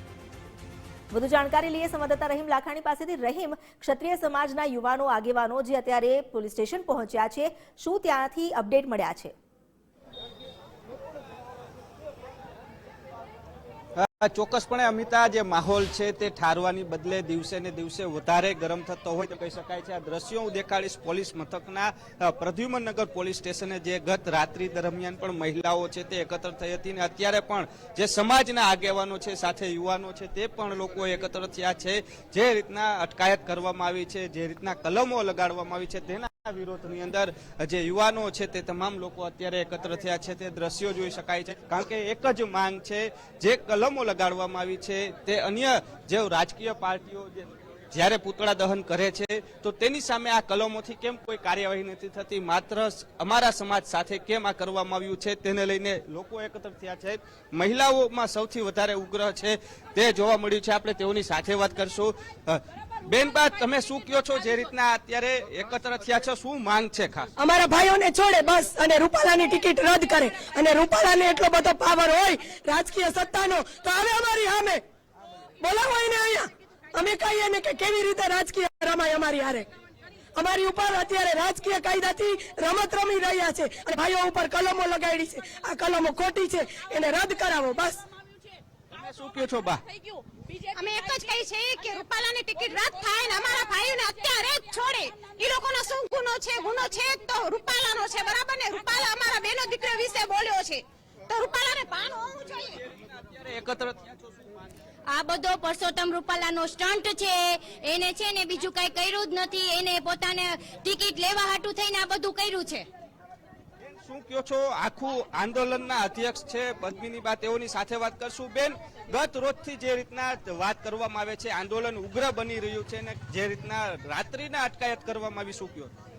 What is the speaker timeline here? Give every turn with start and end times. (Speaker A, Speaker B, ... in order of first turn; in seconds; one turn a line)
Speaker A: 1.1-9.3
Speaker B: 14.0-67.3
Speaker C: 67.4-74.8
Speaker C: 75.6-79.7
Speaker C: 80.4-88.1
Speaker B: 88.9-89.8
Speaker D: 90.8-102.8
Speaker B: 103.2-104.0
Speaker E: 105.1-112.9
Speaker B: 114.0-125.9